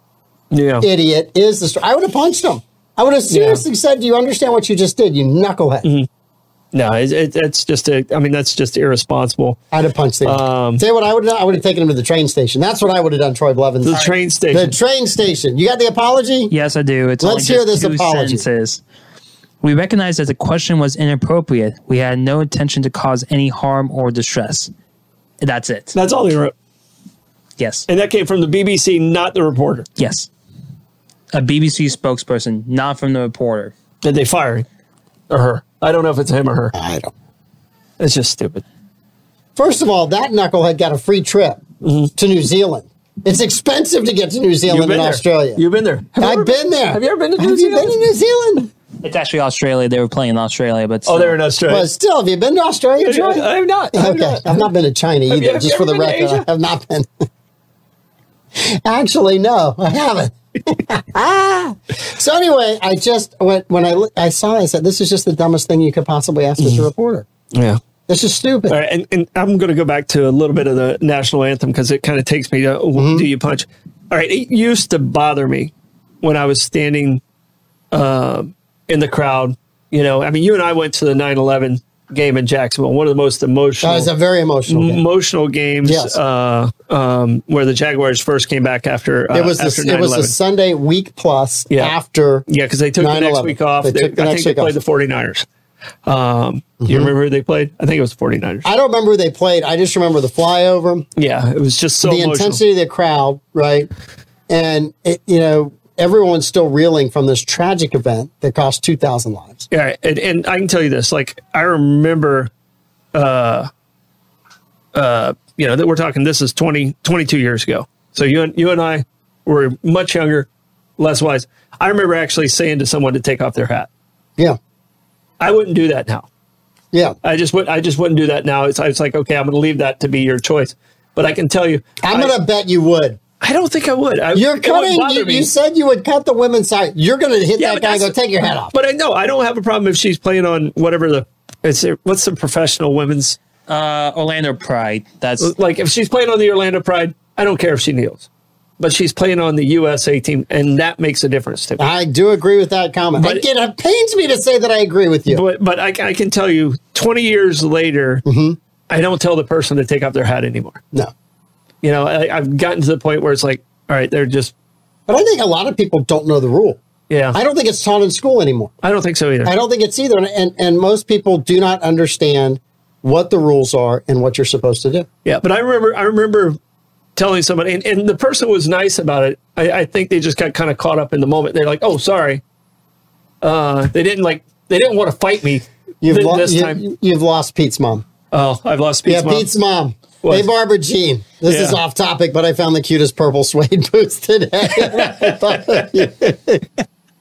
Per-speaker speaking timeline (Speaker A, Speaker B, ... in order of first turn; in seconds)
Speaker A: 0.5-0.9, 3.3-3.6, 6.7-9.6, 10.2-10.8, 13.8-14.8, 25.9-26.5, 27.9-29.9, 34.0-34.7, 35.3-36.7, 38.0-38.6, 41.8-42.1, 44.7-48.0, 51.1-51.9, 53.0-54.7, 55.3-56.5, 66.6-66.8, 67.5-67.8, 68.7-77.2, 77.9-84.1, 84.7-90.3, 91.7-92.0, 92.5-95.5, 96.1-98.7, 101.2-102.6, 109.7-112.5, 113.1-113.7, 114.9-123.9, 125.4-126.3, 127.2-132.3, 133.4-135.5, 137.6-143.4, 145.4-148.3, 148.8-151.9, 153.2-153.4, 155.3-158.2, 158.9-160.8, 161.8-164.5, 167.1-167.4, 168.8-169.5, 175.2-176.6, 177.2-182.4, 183.4-186.8, 188.3-189.5, 190.2-190.5, 191.5-191.8, 194.9-195.2
Speaker B: 0.8-5.9, 9.7-16.5, 17.2-18.4, 36.7-37.1, 39.6-41.6, 42.2-45.6, 46.2-48.7, 51.7-57.1, 58.6-67.3, 68.1-68.8, 73.0-73.3, 83.8-85.0, 85.8-86.2, 89.3-92.5, 93.0-94.7, 96.8-97.1, 98.7-101.1, 102.0-103.9, 104.5-109.7, 132.0-133.2, 134.3-138.7, 151.8-155.4, 158.2-158.6, 165.1-166.8, 167.3-168.7, 169.4-175.1, 186.0-188.1, 189.1-196.8
Speaker C: 16.5-18.8, 19.6-24.7, 25.4-25.9, 27.6-27.9, 30.0-30.3, 31.3-33.7, 49.0-51.4, 143.7-145.5